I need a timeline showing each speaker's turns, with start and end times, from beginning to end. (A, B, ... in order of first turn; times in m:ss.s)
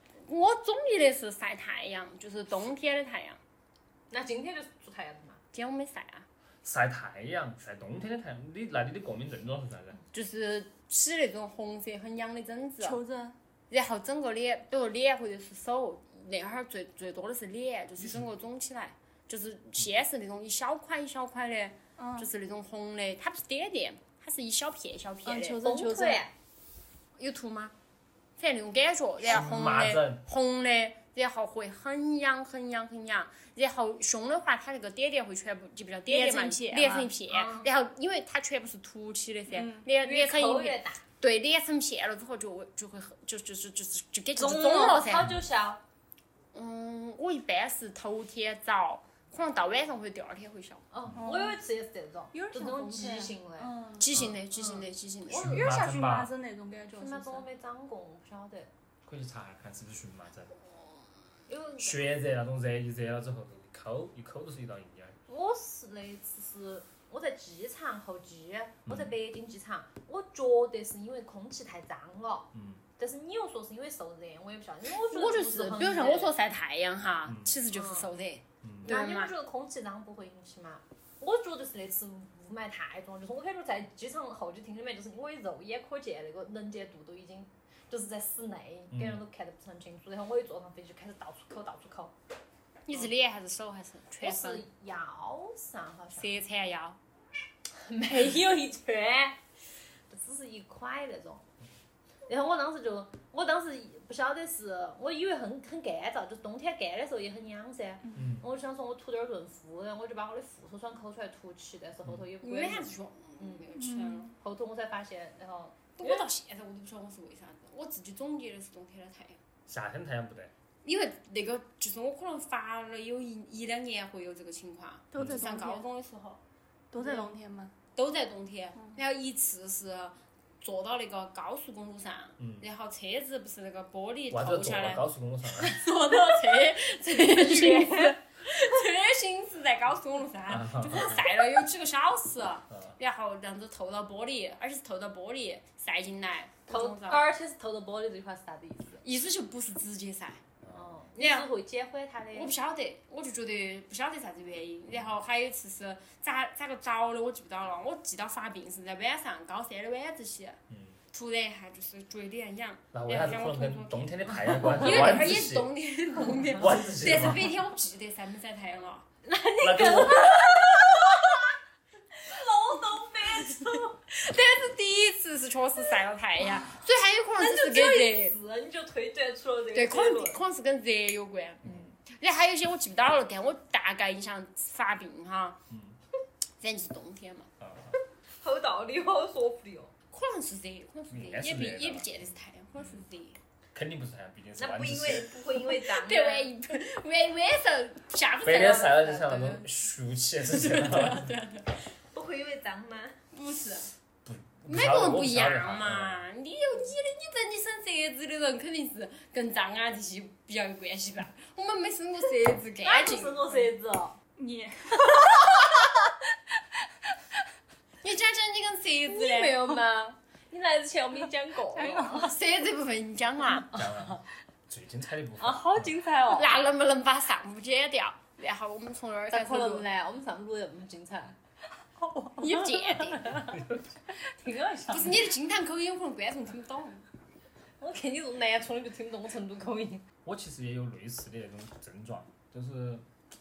0:00.2-0:03.4 A
0:04.1-0:05.4 B
0:05.5-0:06.2 A
0:06.6-0:10.0 C
0:10.1-0:13.0 A
0:12.8-0:13.4 D
0:13.7-0:25.6 A
0:18.0-0:18.3 C
0:22.0-0:22.3 D
0:25.2-0:26.2 D
0:25.6-0:26.3 B
0:27.2-0:27.7 A
0:28.4-0:45.3 A
0:29.2-0:30.2 C
0:36.1-0:37.1 D
0:37.3-0:37.7 B
0:39.5-0:39.9 D
0:39.9-0:41.0 B
0:44.4-0:45.8 B
0:46.5-0:50.8 A
0:50.9-0:54.9 B
0:51.2-0:51.6 D
0:52.3-0:54.2 D
0:54.0-0:55.6 A
0:55.3-0:57.5 D
0:55.3-0:56.3 C
0:57.0-0:58.7 B
0:59.0-1:00.5 C
1:01.5-1:02.1 B
1:01.8-1:05.2 C
1:05.3-1:16.3 B
1:08.8-1:09.1 C
1:12.5-1:12.8 C
1:15.1-1:19.3 A
1:17.2-1:17.5 C
1:17.7-1:18.1 B
1:18.6-1:18.9 C
1:18.8-1:32.1 B
1:28.9-1:29.2 C
1:32.9-1:34.6 A
1:34.2-1:36.3 B
1:36.2-1:37.0 A
1:37.8-1:39.4 B
1:40.1-1:41.4 B
1:42.3-1:53.7 B
1:48.1-1:48.4 C
1:52.4-1:54.3 A
1:53.7-1:54.3 D
1:54.4-1:56.3 B
1:56.0-1:59.4 A
1:59.7-2:00.5 C
2:00.8-2:06.4 A
2:05.1-2:05.8 D
2:05.2-2:05.4 C
2:06.9-2:07.7 D
2:07.0-2:07.3 A
2:07.9-2:27.2 A
2:12.4-2:12.6 C
2:14.3-2:15.8 C
2:17.3-2:18.1 B
2:20.5-2:21.2 C
2:26.7-2:29.0 B
2:29.0-2:30.4 A
2:30.7-2:32.5 B
2:31.2-2:31.5 A
2:32.3-2:40.6 A
2:40.7-2:41.0 C
2:41.1-2:49.0 A
2:42.9-2:45.7 C
2:46.5-2:47.5 C
2:49.2-2:51.4 B
2:49.6-2:50.6 C
2:52.1-2:54.0 B
2:54.1-2:58.4 A
2:57.4-3:00.4 B
2:59.7-3:05.6 A
3:01.6-3:01.9 C
3:05.7-3:06.0 C
3:06.6-3:07.5 A
3:07.6-3:07.9 C
3:08.4-3:09.9 B
3:10.1-3:13.4 A
3:11.1-3:13.0 C
3:13.7-3:15.4 C
3:14.6-3:16.5 B
3:15.6-3:19.6 A
3:18.4-3:21.3 C
3:20.5-3:21.8 A
3:22.1-3:23.2 B
3:23.3-3:23.9 A
3:24.2-3:26.2 C
3:24.7-3:33.7 A
3:32.8-3:34.2 B
3:34.4-3:35.7 D
3:38.0-3:39.8 A
3:39.0-3:42.3 B
3:41.7-3:42.3 D
3:42.1-3:43.7 A
3:43.7-3:44.2 B
3:43.7-3:46.0 C
3:45.4-3:46.5 B
3:46.3-3:49.8 A
3:49.3-3:51.4 B
3:52.0-3:53.6 B
3:52.4-3:53.5 A
3:54.1-3:55.3 B
3:54.9-3:57.0 A
3:57.8-4:00.0 B
4:00.2-4:03.0 C